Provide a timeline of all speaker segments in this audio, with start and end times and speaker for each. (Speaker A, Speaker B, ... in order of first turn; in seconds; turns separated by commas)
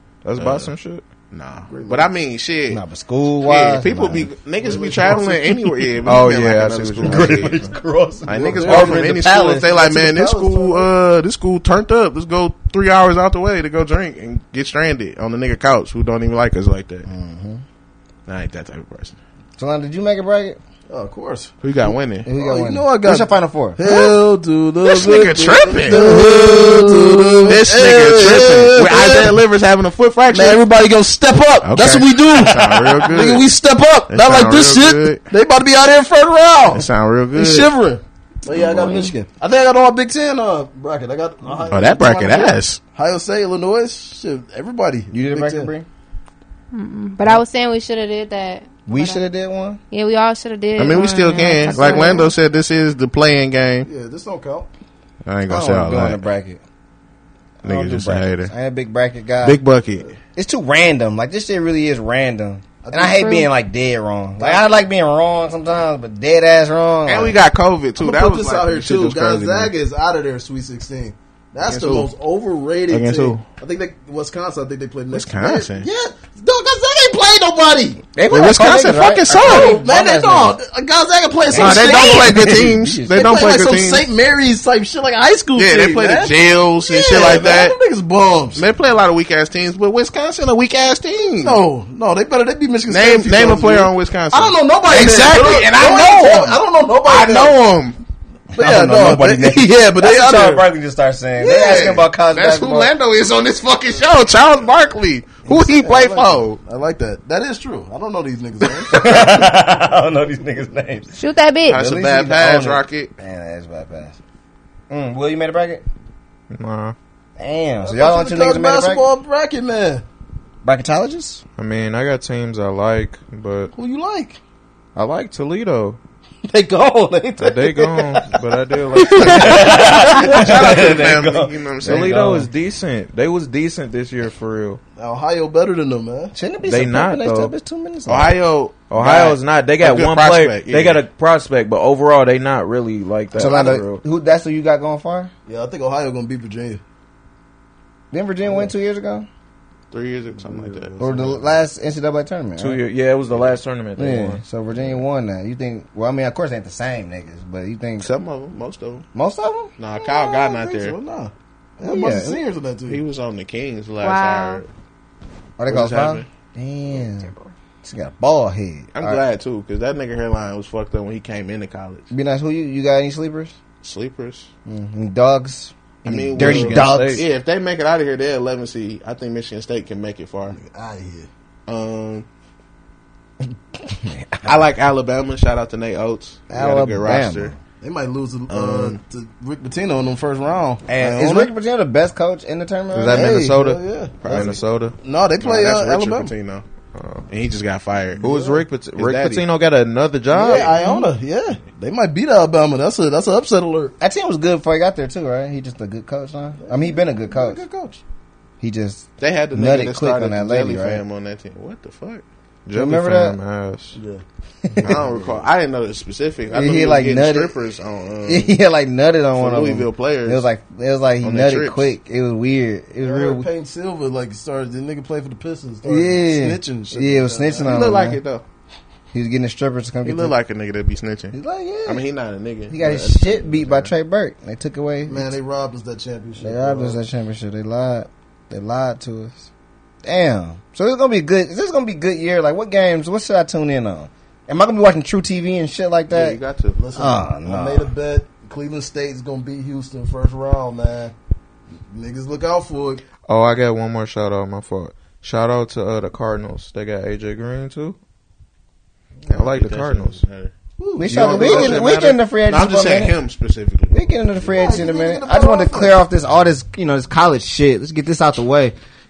Speaker A: 0.2-1.1, Speaker B: 0.4-0.7, Speaker B: 1.3-2.8, Speaker C: 1.7-2.1, Speaker D: 2.7-4.3, Speaker B: 3.4-7.7, Speaker C: 4.6-5.7, Speaker A: 6.0-7.8, Speaker D: 7.0-10.6, Speaker C: 8.2-9.2, Speaker B: 8.3-17.1, Speaker D: 17.1-17.6, Speaker B: 18.3-19.2, Speaker D: 19.6-20.6, Speaker C: 20.9-21.5, Speaker B: 21.6-22.3, Speaker D: 22.2-23.8, Speaker C: 22.3-29.4, Speaker B: 23.8-24.1, Speaker B: 24.8-26.0, Speaker E: 25.9-27.1, Speaker B: 27.5-30.6, Speaker C: 30.3-45.7, Speaker B: 31.6-33.5, Speaker B: 34.1-35.3, Speaker B: 36.7-37.7, Speaker B: 38.5-39.0, Speaker B: 41.7-42.8, Speaker D: 45.1-45.9, Speaker E: 46.7-49.2, Speaker D: 48.9-49.8, Speaker E: 49.9-52.3, Speaker B: 50.8-53.9, Speaker C: 51.8-52.1, Speaker C: 53.8-54.7, Speaker B: 55.2-56.2, Speaker D: 55.5-56.6, Speaker D: 57.6-59.6, Speaker B: 57.6-58.5, Speaker B: 59.4-60.1, Speaker D: 60.4-67.4, Speaker C: 62.8-63.4, Speaker E: 63.2-63.4, Speaker C: 64.4-64.6, Speaker B: 67.0-69.7, Speaker C: 68.0-78.0, Speaker B: 71.6-72.1, Speaker B: 72.9-73.4, Speaker B: 75.1-75.9, Speaker D: 78.1-80.6, Speaker B: 78.3-79.8, Speaker C: 79.3-88.6, Speaker D: 81.5-82.5, Speaker B: 81.5-84.0, Speaker B: 85.5-87.8, Speaker B: 88.5-91.6, Speaker C: 91.4-97.6, Speaker B: 92.9-98.0, Speaker C: 98.5-100.7, Speaker D: 98.5-102.9, Speaker C: 101.4-102.0, Speaker B: 101.5-106.6, Speaker C: 105.4-109.1, Speaker D: 108.9-111.1, Speaker E: 111.1-111.8, Speaker B: 111.7-113.1, Speaker D: 111.7-114.2, Speaker D: 114.9-115.8, Speaker A: 116.5-116.9, Speaker D: 117.4-119.0, Speaker C: 117.8-120.0, Speaker D: 120.6-121.4, Speaker A: 121.6-123.7, Speaker C: 123.7-124.4, Speaker A: 125.0-126.0, Speaker C: 126.5-128.2, Speaker A: 127.4-129.8, Speaker D: 129.0-132.5, Speaker B: 129.2-132.2, Speaker C: 129.3-129.9, Speaker A: 131.8-134.8, Speaker C: 134.9-136.3, Speaker D: 136.3-138.3, Speaker A: 136.7-137.5, Speaker B: 138.1-141.0, Speaker A: 138.9-144.0, Speaker D: 143.3-145.3, Speaker C: 145.5-146.8, Speaker D: 148.1-149.3, Speaker C: 148.4-148.7, Speaker B: 149.9-151.1, Speaker C: 150.3-151.5, Speaker D: 151.0-152.8, Speaker A: 152.6-154.4, Speaker D: 154.0-158.1, Speaker B: 158.0-159.1, Speaker D: 159.1-159.7, Speaker B: 159.8-160.9, Speaker C: 160.3-163.0, Speaker D: 161.8-162.4, Speaker B: 162.9-164.7, Speaker E: 164.0-164.6, Speaker D: 165.6-167.3, Speaker B: 165.7-166.3, Speaker D: 167.8-169.2, Speaker B: 168.9-172.1, Speaker D: 172.1-173.5, Speaker B: 173.8-174.5, Speaker D: 174.7-177.2, Speaker B: 176.0-180.6, Speaker A: 176.1-177.2, Speaker C: 180.5-181.3, Speaker B: 181.7-182.2, Speaker D: 183.8-184.6, Speaker B: 184.4-187.5, Speaker D: 186.5-187.6, Speaker C: 187.8-191.5, Speaker B: 188.5-189.0, Speaker D: 190.9-193.4, Speaker A: 192.9-194.9, Speaker C: 193.1-196.3, Speaker B: 194.2-194.6, Speaker B: 195.4-196.6, Speaker A: 196.9-197.2, Speaker B: 197.3-198.2, Speaker A: 198.2-200.8, Speaker C: 198.2-198.6, Speaker B: 198.8-199.4, Speaker C: 200.3-203.9, Speaker D: 204.0-207.6, Speaker C: 206.6-208.0, Speaker D: 208.6-211.0, Speaker B: 209.2-212.2, Speaker A: 212.7-214.0, Speaker D: 212.7-213.4, Speaker C: 213.9-214.2, Speaker D: 214.6-215.0, Speaker B: 214.8-218.5, Speaker C: 214.8-215.4, Speaker D: 216.5-217.5, Speaker D: 218.2-223.5, Speaker B: 219.3-220.4, Speaker B: 221.2-221.9, Speaker C: 223.0-227.8, Speaker D: 225.8-228.2, Speaker B: 227.6-228.4, Speaker D: 229.1-230.3, Speaker B: 230.0-233.9, Speaker D: 231.3-232.0, Speaker D: 232.7-235.3, Speaker C: 235.0-237.0, Speaker D: 236.4-239.5, Speaker D: 240.0-246.4, Speaker B: 246.1-246.8, Speaker C: 246.7-251.1, Speaker D: 246.9-247.9, Speaker C: 251.9-253.0, Speaker A: 253.2-258.0, Speaker B: 259.2-260.5, Speaker A: 259.3-260.2, Speaker C: 260.8-261.9, Speaker D: 261.0-263.2, Speaker B: 261.1-264.5, Speaker A: 261.1-262.0, Speaker D: 263.9-268.7, Speaker C: 264.5-266.0